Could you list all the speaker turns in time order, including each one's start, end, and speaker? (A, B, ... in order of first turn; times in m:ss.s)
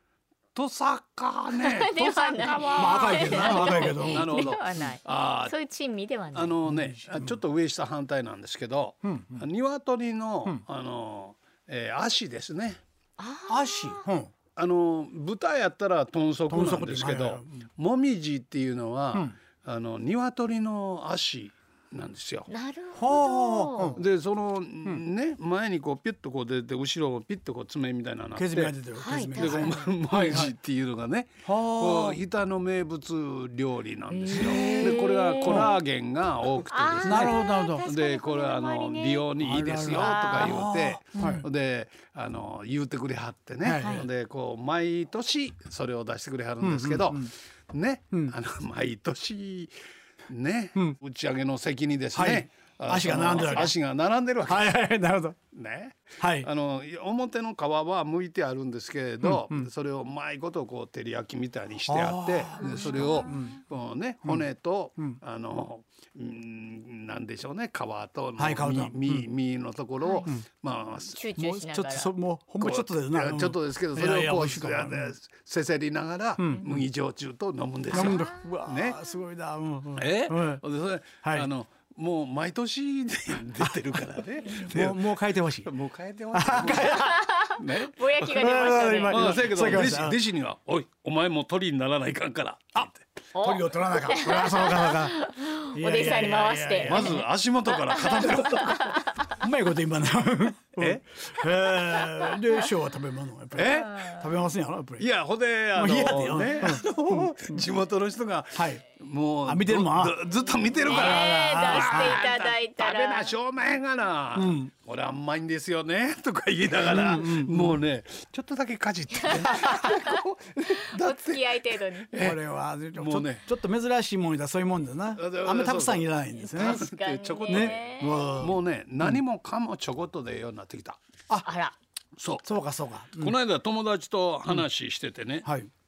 0:00.5-0:05.6 A
0:01.5-0:06.6 B
0:02.8-0:04.3 C
0:06.3-0:12.8 A
0:06.6-0:07.4 C
0:09.0-0:09.4 C
0:13.2-0:14.0 B
0:13.5-0:14.3 C
0:14.6-0:22.5 A
0:16.5-0:17.7 C
0:22.5-0:24.0 B
0:22.9-0:24.0 C
0:24.0-0:28.8 A
0:28.3-0:30.6 C
0:29.0-0:29.9 B
0:29.3-0:49.7 A
0:31.4-0:32.2 C
0:34.1-0:35.7 B
0:34.3-0:35.8 C
0:36.7-0:39.3 B
0:37.0-0:37.9 C
0:39.4-0:41.4 C
0:39.9-0:40.6 B
0:41.1-0:41.4 B
0:43.6-0:44.0 C
0:43.8-0:44.1 B
0:46.6-0:47.3 C
0:50.3-0:54.8 A
0:52.1-0:53.8 C
0:54.4-0:55.4 C
0:55.5-1:11.2 A
0:56.2-0:56.5 C
0:59.2-0:59.7 C
1:01.9-1:03.6 C
1:02.6-1:03.4 B
1:08.4-1:09.3 C
1:10.0-1:10.3 B
1:11.1-1:12.1 B
1:11.4-1:15.1 C
1:12.6-1:19.0 A
1:16.4-1:16.9 C
1:17.9-1:20.6 C
1:20.0-1:28.5 A
1:21.2-1:21.5 C
1:23.6-1:25.7 C
1:26.3-1:27.2 C
1:26.8-1:29.4 B
1:28.2-1:30.2 C
1:29.0-1:33.1 A
1:33.3-1:39.3 B
1:33.4-1:35.2 C
1:35.7-1:37.3 C
1:36.8-1:39.0 A
1:37.9-1:38.7 C
1:39.4-1:45.1 C
1:40.8-1:41.2 A
1:43.5-1:44.2 A
1:45.0-2:02.4 A
1:45.8-1:47.7 C
1:48.5-1:48.8 C
1:49.4-1:50.2 C
1:50.8-1:52.2 C
1:50.8-1:53.3 B
1:54.3-1:54.7 C
1:56.8-1:57.8 C
1:59.3-1:59.7 C
1:59.4-2:00.0 B
2:00.9-2:02.1 B
2:02.2-2:06.9 C
2:02.9-2:03.5 A
2:05.1-2:11.0 A
2:06.5-2:08.3 B
2:07.5-2:09.2 C
2:11.4-2:11.8 B
2:12.2-2:12.5 A
2:12.4-2:13.4 C
2:13.1-2:15.5 A
2:15.4-2:15.7 C